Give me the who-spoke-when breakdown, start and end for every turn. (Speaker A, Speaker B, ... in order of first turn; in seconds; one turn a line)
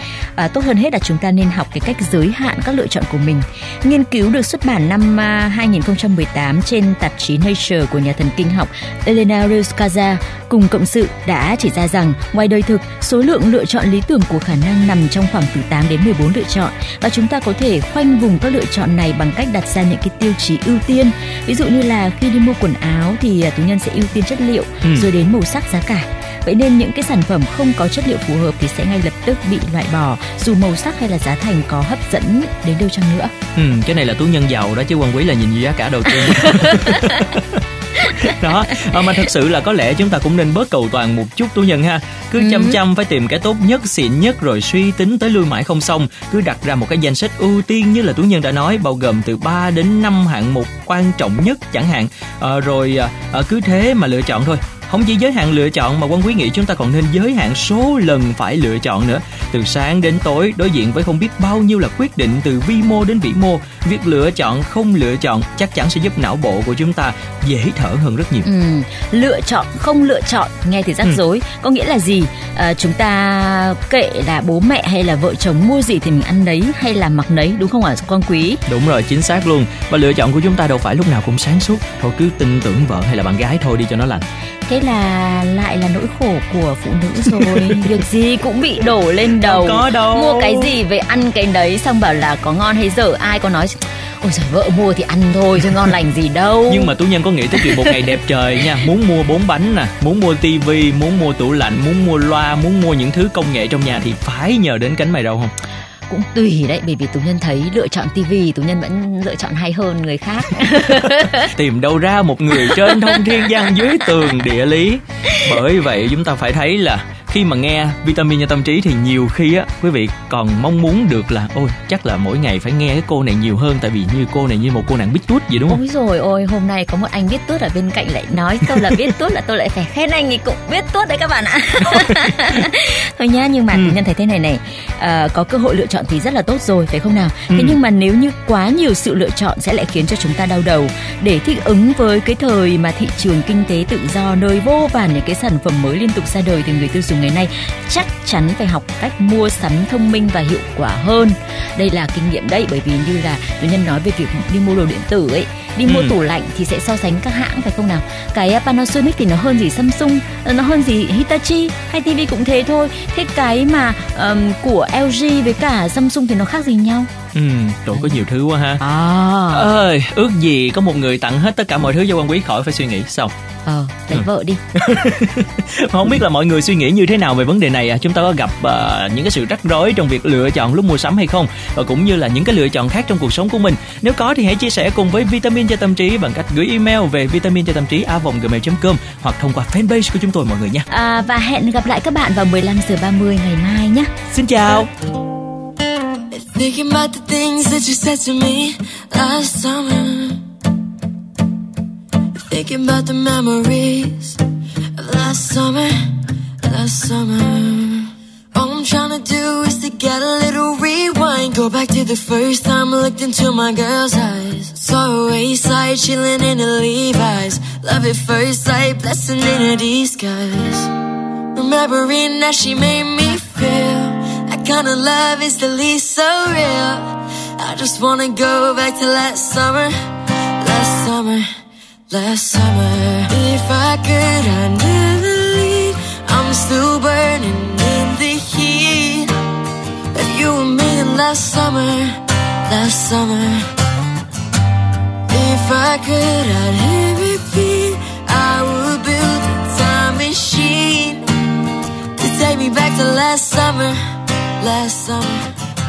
Speaker A: 0.3-33.3
Speaker B: 33.5-68.5
Speaker A: 36.2-37.2
Speaker A: 38.0-38.3
Speaker A: 42.4-42.8
Speaker A: 68.4-78.6
Speaker B: 78.7-84.2
Speaker A: 84.7-96.9
Speaker B: 87.3-87.8
Speaker B: 89.3-90.7
Speaker B: 96.7-105.5
Speaker A: 97.6-98.0
Speaker A: 106.1-111.5
Speaker B: 111.2-125.8
Speaker A: 112.7-113.1
Speaker A: 125.7-167.1
Speaker B: 131.8-132.2
Speaker B: 137.5-137.8
Speaker B: 155.9-156.1
Speaker B: 167.3-168.8
Speaker A: 168.8-169.7
Speaker B: 169.5-173.3
Speaker A: 173.7-174.6
Speaker B: 174.1-190.8
Speaker A: 190.9-194.1
Speaker B: 194.3-194.9
Speaker C: 196.3-200.4
Speaker C: 202.5-204.4
Speaker C: 204.9-220.9
Speaker C: 221.5-229.9
Speaker C: 230.6-231.5
Speaker C: 232.1-239.3
Speaker C: 240.1-243.7
Speaker C: 245.3-251.3
Speaker C: 252.2-255.5